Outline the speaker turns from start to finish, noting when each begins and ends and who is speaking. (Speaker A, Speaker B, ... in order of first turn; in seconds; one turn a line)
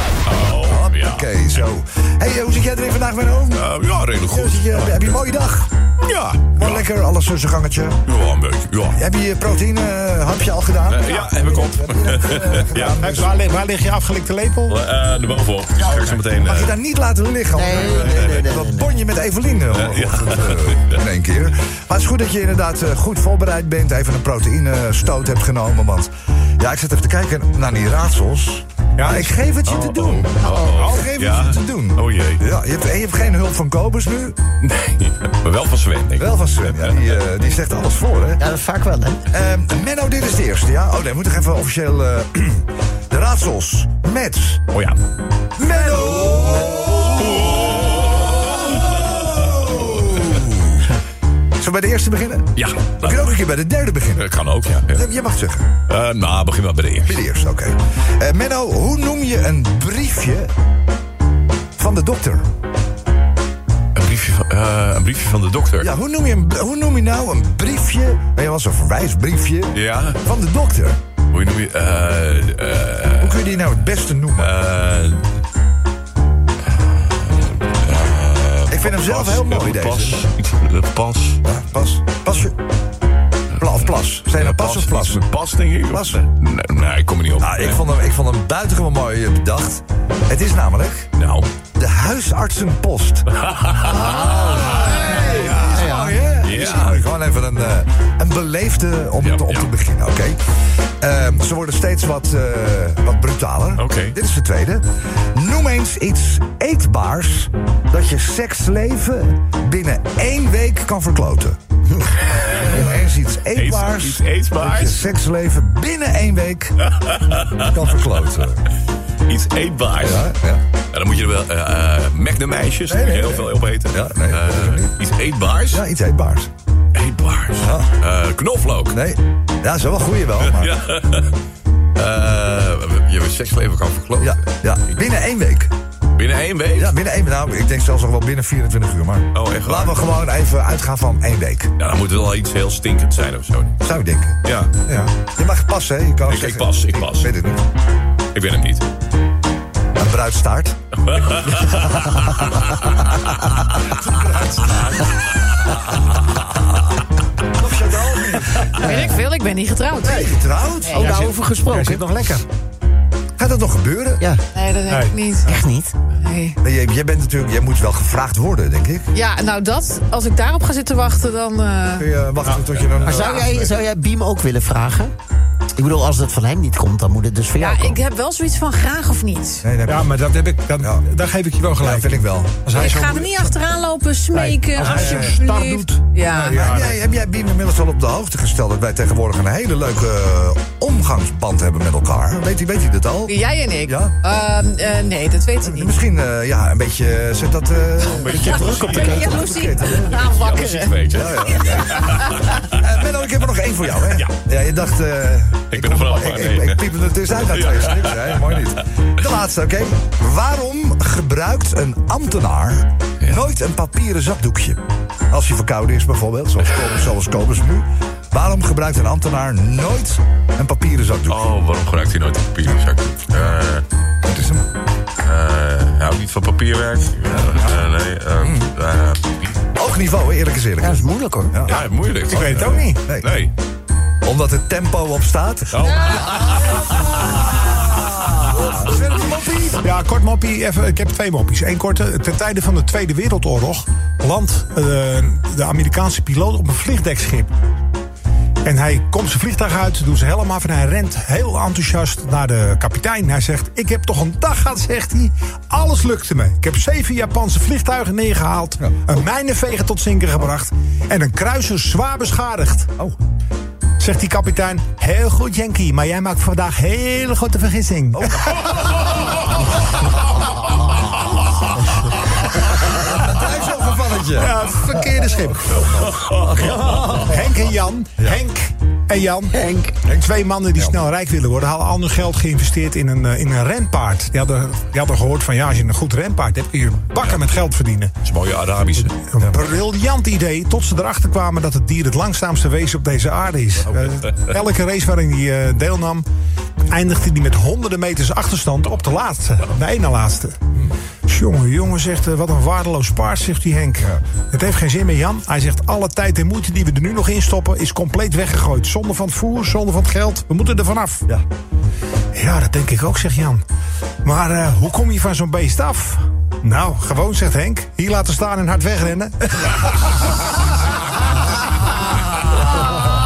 Speaker A: 0.2-1.6
Speaker B: 0.4-3.6
Speaker A: 3.5-5.2
Speaker B: 4.2-5.7
Speaker A: 6.0-6.9
Speaker B: 6.5-8.0
Speaker A: 8.1-9.0
Speaker B: 8.9-13.4
Speaker A: 10.9-13.0
Speaker C: 12.8-14.8
Speaker A: 14.7-16.8
Speaker B: 16.3-34.4
Speaker D: 17.5-18.9
Speaker A: 19.7-21.0
Speaker C: 29.0-29.3
Speaker A: 29.6-32.4
Speaker C: 30.8-31.1
Speaker A: 34.6-37.0
Speaker B: 36.1-38.4
Speaker D: 38.4-39.2
Speaker B: 39.3-44.6
Speaker A: 44.7-45.0
Speaker B: 45.6-50.9
Speaker A: 47.2-48.5
Speaker B: 51.6-54.3
Speaker A: 52.5-53.4
Speaker A: 54.1-55.1
Speaker B: 54.9-55.7
Speaker A: 55.9-57.2
Speaker B: 57.0-60.5
Speaker B: 61.8-62.5
Speaker A: 64.0-65.9
Speaker B: 65.8-71.0
Speaker A: 69.7-70.2
Speaker A: 71.3-73.5
Speaker B: 73.2-74.5
Speaker A: 74.4-75.3
Speaker A: 77.1-81.4
Speaker B: 78.7-80.2
Speaker B: 81.4-82.5
Speaker B: 83.6-85.2
Speaker A: 83.6-87.8
Speaker B: 85.9-86.2
Speaker B: 87.4-91.1
Speaker A: 91.2-91.5
Speaker B: 91.7-93.2
Speaker A: 93.3-95.8
Speaker B: 93.9-100.4
Speaker D: 95.6-96.2
Speaker A: 96.4-97.1
Speaker A: 99.2-99.7
Speaker B: 101.0-111.6
Speaker A: 103.8-104.2
Speaker A: 112.4-112.9
Speaker B: 112.6-116.8
Speaker A: 113.5-115.0
Speaker A: 116.8-117.8
Speaker B: 117.6-118.6
Speaker A: 119.3-120.3
Speaker B: 120.0-120.6
Speaker A: 120.9-125.8
Speaker B: 122.9-125.0
Speaker B: 125.7-126.5
Speaker A: 126.9-129.0
Speaker B: 127.6-127.9
Speaker B: 128.9-130.7
Speaker A: 130.4-131.3
Speaker A: 131.9-134.5
Speaker B: 134.2-135.7
Speaker A: 136.2-136.9
Speaker B: 136.7-141.7
Speaker A: 139.3-140.1
Speaker A: 141.8-143.8
Speaker B: 143.8-144.4
Speaker A: 144.4-144.7
Speaker C: 144.9-145.1
Speaker B: 145.2-147.6
Speaker A: 146.2-147.3
Speaker A: 148.3-148.8
Speaker B: 149.9-150.8
Speaker A: 151.0-152.7
Speaker B: 153.7-155.1
Speaker B: 156.3-156.7
Speaker B: 157.5-158.7
Speaker E: 158.8-161.1
Speaker D: 158.8-159.2
Speaker B: 160.0-161.2
Speaker D: 160.9-162.0
Speaker C: 161.0-162.4
Speaker B: 163.4-164.2
Speaker E: 164.5-166.6
Speaker C: 164.9-165.1
Speaker D: 165.4-165.9
Speaker B: 166.6-169.1
Speaker E: 169.1-172.1
Speaker B: 171.9-173.7
Speaker D: 173.0-175.1
Speaker E: 173.1-173.5
Speaker D: 175.8-178.0
Speaker E: 177.6-179.6
Speaker B: 179.6-180.1
Speaker C: 179.8-183.5
Speaker B: 181.8-182.9
Speaker E: 182.7-186.7
Speaker C: 184.3-186.9
Speaker B: 184.8-185.4
Speaker B: 186.2-194.1
Speaker E: 193.3-196.0
Speaker B: 195.6-200.2
Speaker A: 198.1-199.4
Speaker D: 198.1-199.5
Speaker E: 198.4-202.6
Speaker A: 200.1-202.4
Speaker B: 201.1-221.5
Speaker A: 205.7-206.9
Speaker A: 207.4-208.7
Speaker A: 213.2-213.5
Speaker A: 221.3-223.8
Speaker B: 224.2-224.6
Speaker A: 225.2-229.6
Speaker B: 227.5-227.8
Speaker B: 228.4-228.7
Speaker B: 229.7-233.3
Speaker D: 230.8-231.6
Speaker A: 231.6-233.5
Speaker C: 232.3-233.1
Speaker B: 234.2-239.9
Speaker A: 235.7-237.4
Speaker C: 239.8-247.5
Speaker C: 248.6-262.9
Speaker C: 264.0-268.7
Speaker B: 268.1-269.0
Speaker B: 272.8-277.2
Speaker C: 274.4-275.8
Speaker A: 276.0-277.1
Speaker D: 276.7-277.2
Speaker C: 277.1-279.6
Speaker D: 279.5-279.9
Speaker C: 280.1-288.1
Speaker A: 287.2-287.4
Speaker A: 288.2-289.1
Speaker C: 289.1-296.2
Speaker B: 289.4-289.7
Speaker A: 294.0-294.5
Speaker C: 296.9-300.6
Speaker C: 301.2-311.2
Speaker C: 312.3-313.6
Speaker C: 314.2-320.1